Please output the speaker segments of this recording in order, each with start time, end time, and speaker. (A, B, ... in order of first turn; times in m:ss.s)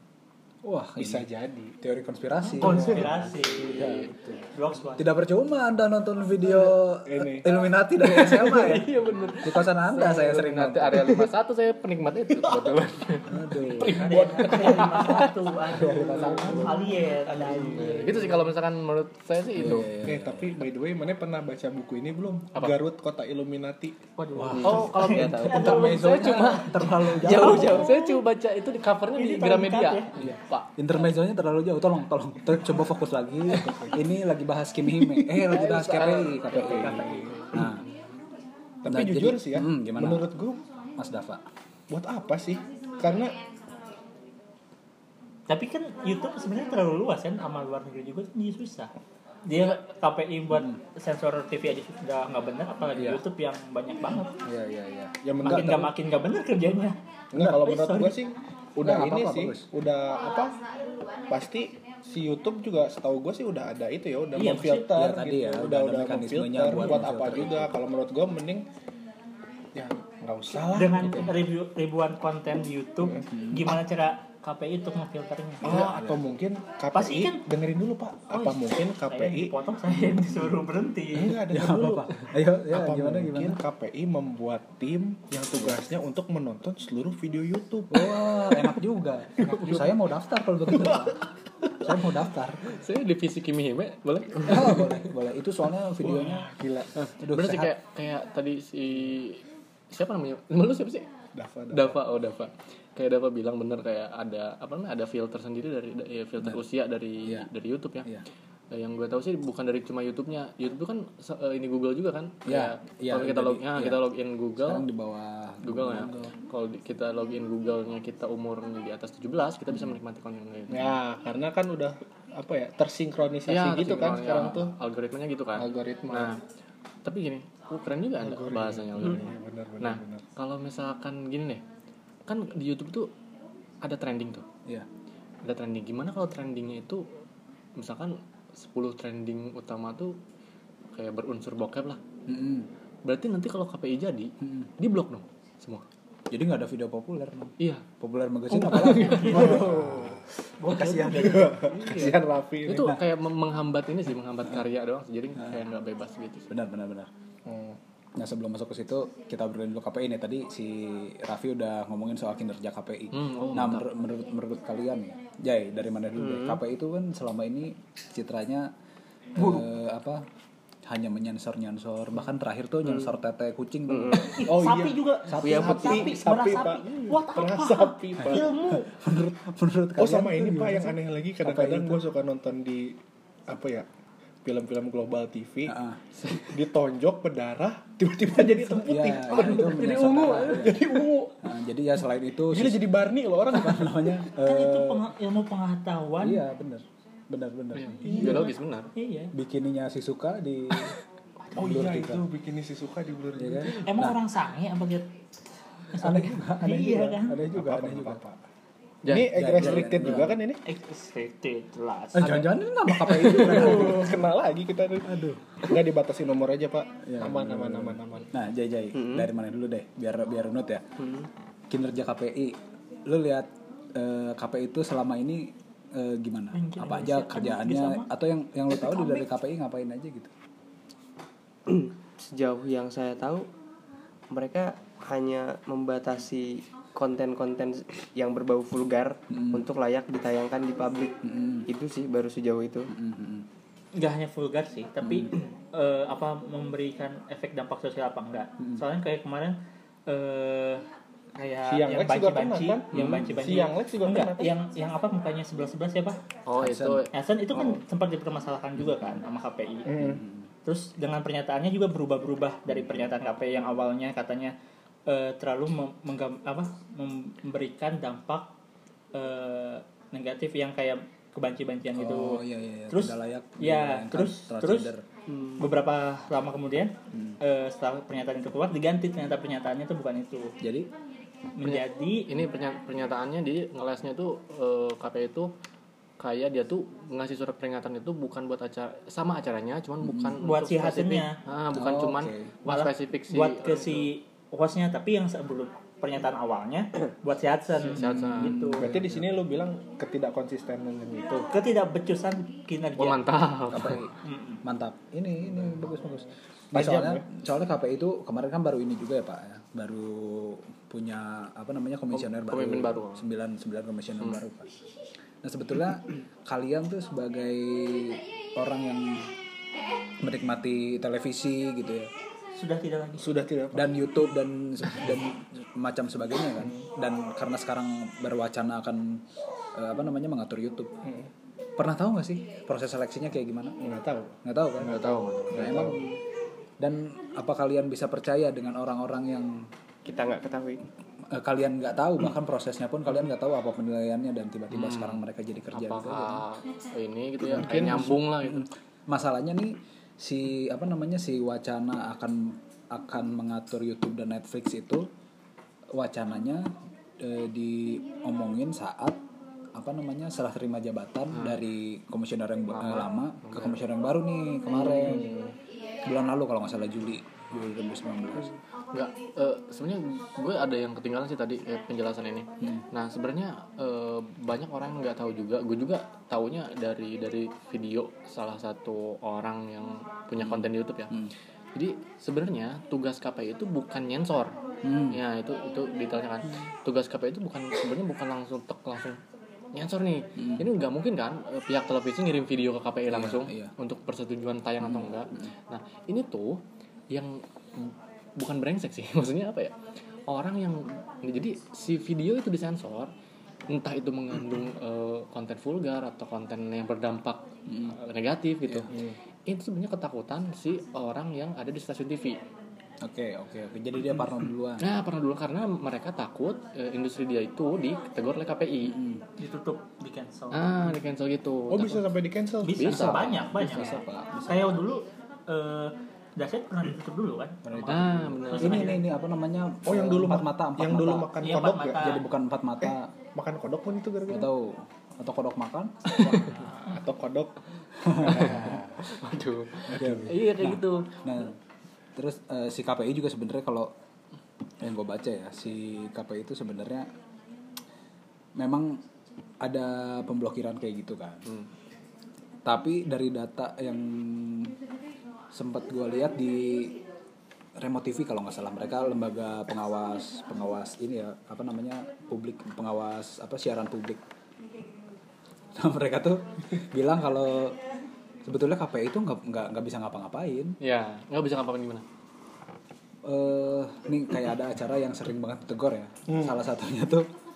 0:00.6-0:01.3 A
0:01.0-0:01.8 B
0:01.8-0:03.2 A
0:02.5-0:05.1 C
0:02.6-0:03.0 B
0:03.4-0:04.1 D
0:03.7-0:04.4 A
0:05.0-0:11.2 A
0:07.0-0:07.5 B
0:08.0-0:15.4 D
0:13.3-0:14.1 A
0:13.6-0:18.4 C
0:15.0-0:17.0 A
0:16.3-0:16.6 B
0:17.8-0:19.9 D
0:19.6-0:20.6 A
0:20.0-0:24.0 B
0:24.2-0:26.3 C
0:24.3-0:27.9 A
0:24.5-0:25.9 E
0:24.6-0:30.7 D
0:27.0-0:28.2 E
0:29.2-0:30.1 C
0:30.2-0:37.8 A
0:33.7-0:33.9 B
0:35.4-0:37.9 D
0:36.5-0:37.4 B
0:38.8-0:40.6 B
0:38.9-0:40.3 A
0:41.0-0:41.4 A
0:41.9-0:43.4 B
0:45.5-0:48.9 C
0:49.5-0:54.3 C
0:50.5-0:50.8 A
0:53.0-0:53.2 A
0:54.4-0:55.9 A
0:55.2-0:55.9 B
0:55.4-0:58.2 C
0:57.3-1:00.6 B
0:58.8-0:59.7 A
1:01.3-1:08.7 B
1:04.4-1:04.9 C
1:04.9-1:07.7 A
1:09.8-1:11.3 B
1:10.7-1:15.8 C
1:11.0-1:11.3 A
1:13.3-1:13.8 A
1:15.6-1:19.6 B
1:15.6-1:16.2 A
1:16.9-1:17.4 C
1:18.3-1:21.4 C
1:21.1-1:28.7 B
1:21.5-1:23.6 A
1:27.9-1:31.2 A
1:29.4-1:30.0 B
1:30.7-1:31.1 B
1:31.8-1:32.6 A
1:32.7-1:35.0 D
1:34.5-1:36.5 A
1:36.0-1:36.9 B
1:37.0-1:41.1 D
1:37.2-1:37.7 A
1:41.4-1:42.0 B
1:41.7-1:48.1 D
1:48.7-1:54.9 D
1:52.5-1:54.0 A
1:54.6-1:56.3 A
1:55.6-2:01.0 D
2:00.7-2:04.7 B
2:03.5-2:06.4 D
2:05.6-2:06.4 B
2:07.0-2:11.6 D
2:08.2-2:10.2 B
2:12.3-2:13.1 D
2:13.8-2:14.5 D
2:15.4-2:17.1 D
2:17.8-2:20.2 D
2:20.9-2:22.0 D
2:22.3-2:22.7 A
2:23.0-2:25.9 D
2:24.4-2:24.7 A
2:26.3-2:31.5 A
2:27.6-2:27.9 D
2:28.5-2:30.1 D
2:29.1-2:29.6 C
2:29.2-2:30.2 B
2:30.6-2:31.5 C
2:30.8-2:32.9 B
2:31.6-2:36.5 D
2:36.5-2:37.1 A
2:37.5-2:37.8 B
2:38.2-2:48.7 A
2:43.1-2:43.9 D
2:46.2-2:46.6 E
2:49.4-2:50.3 A
2:50.9-2:54.4 A
2:52.9-2:53.1 E
2:53.9-2:54.4 E
2:54.3-2:58.9 C
2:54.4-2:58.6 B
2:55.3-2:55.9 A
2:55.4-2:56.1 E
2:58.9-3:02.0 A
3:00.0-3:03.9 B
3:04.4-3:05.8 B
3:05.7-3:06.0 A
3:06.4-3:11.4 B
3:08.5-3:10.9 A
3:09.3-3:10.7 D
3:11.4-3:12.9 A
3:12.5-3:14.1 B
3:13.5-3:15.1 A
3:14.4-3:16.4 C
3:16.2-3:18.4 A
3:17.7-3:18.9 D
3:18.0-3:19.3 C
3:19.3-3:20.9 A
3:21.5-3:23.8 B
3:21.6-3:22.3 A
3:23.4-3:24.2 A
3:23.8-3:25.1 C
3:25.9-3:27.4 C
3:26.0-3:28.2 A
3:27.4-3:28.4 B
3:29.0-3:29.8 D
3:29.0-3:30.6 B
3:29.3-3:30.4 A
3:30.6-3:32.4 C
3:32.2-3:34.2 A
3:33.0-3:33.8 D
3:33.3-3:38.3 B
3:35.1-3:35.7 A
3:37.1-3:40.9 A
3:38.9-3:39.3 E
3:41.0-3:41.3 E
3:41.7-3:50.3 A
3:46.5-3:48.1 C
3:48.7-3:49.3 C
3:51.7-3:53.5 E
3:54.3-4:02.9 E
3:59.3-3:59.7 A
4:01.2-4:01.7 A
4:02.9-4:03.5 A
4:03.9-4:10.8 C
4:05.0-4:05.4 A
4:11.4-4:16.2 C
4:11.6-4:14.6 B
4:12.9-4:13.3 A
4:16.5-4:17.1 D
4:16.6-4:17.1 A
4:17.1-4:20.0 C
4:18.9-4:19.2 A
4:19.9-4:20.2 B
4:20.0-4:20.4 A
4:20.6-4:24.6 C
4:25.1-4:28.5 C
4:29.1-4:34.9 C
4:32.0-4:35.0 A
4:35.6-4:40.6 C
4:40.6-4:40.9 A
4:41.6-4:42.3 C
4:41.6-4:45.5 D
4:46.2-4:54.1 D
4:50.0-4:50.4 A
4:50.4-4:51.4 C
4:51.7-4:52.5 A
4:52.6-4:58.9 C
4:57.8-4:58.6 D
4:58.0-4:59.3 A
4:58.8-5:01.5 B
5:01.5-5:03.2 C
5:03.0-5:04.1 D
5:03.7-5:04.1 A
5:04.2-5:04.6 C
5:04.6-5:14.7 A
5:06.7-5:07.2 B
5:12.1-5:13.2 D
5:15.4-5:19.3 A
5:20.2-5:22.1 A
5:22.6-5:23.3 C
5:23.2-5:23.9 B
5:23.7-5:29.2 A
5:29.8-5:30.9 A
5:31.0-5:31.3 B
5:31.8-5:33.8 A
5:33.8-5:34.4 B
5:34.4-5:36.1 A
5:34.8-5:35.9 D
5:35.0-5:36.2 B
5:36.8-5:39.7 A
5:40.0-5:40.8 E
5:41.3-5:46.4 A
5:44.7-5:48.7 D
5:47.5-5:55.1 A
5:47.6-5:47.9 B
5:55.9-5:59.2 A
5:59.7-6:05.3 A
6:01.3-6:01.6 D
6:02.7-6:03.8 D
6:04.8-6:05.5 B
6:06.1-6:08.5 A
6:08.9-6:21.2 D
6:20.4-6:21.3 A
6:21.7-6:24.6 D
6:24.8-6:25.2 A
6:25.1-6:29.2 D
6:29.7-6:39.8 D
6:30.4-6:30.7 A
6:33.1-6:33.7 A
6:34.8-6:35.5 A
6:40.3-6:43.1 D
6:43.7-6:52.4 D
6:47.7-6:48.0 A
6:48.9-6:49.2 B
6:53.0-6:54.8 A
6:54.8-6:59.0 D
6:58.9-6:59.2 A
6:59.4-7:00.7 C
7:00.5-7:02.1 D
7:01.7-7:03.1 B
7:02.6-7:09.0 C
7:02.8-7:03.9 D
7:02.8-7:04.8 A
7:07.6-7:11.4 A
7:07.8-7:09.0 D
7:09.8-7:12.2 B
7:11.4-7:12.2 C
7:12.0-7:13.1 A
7:12.8-7:14.5 B
7:14.3-7:16.3 A
7:16.2-7:17.6 B
7:18.0-7:18.9 A
7:18.1-7:18.8 B
7:18.2-7:21.3 D
7:19.9-7:20.3 B
7:19.9-7:21.6 A
7:22.2-7:23.9 A
7:24.8-7:27.1 A
7:28.6-7:29.0 A
7:29.6-7:31.5 A
7:32.6-7:34.7 A
7:35.5-7:37.0 A
7:37.8-7:44.2 A
7:45.8-7:47.8 A
7:48.4-7:50.8 A
7:50.8-7:52.0 D
7:53.2-7:57.3 A
7:56.3-7:56.6 B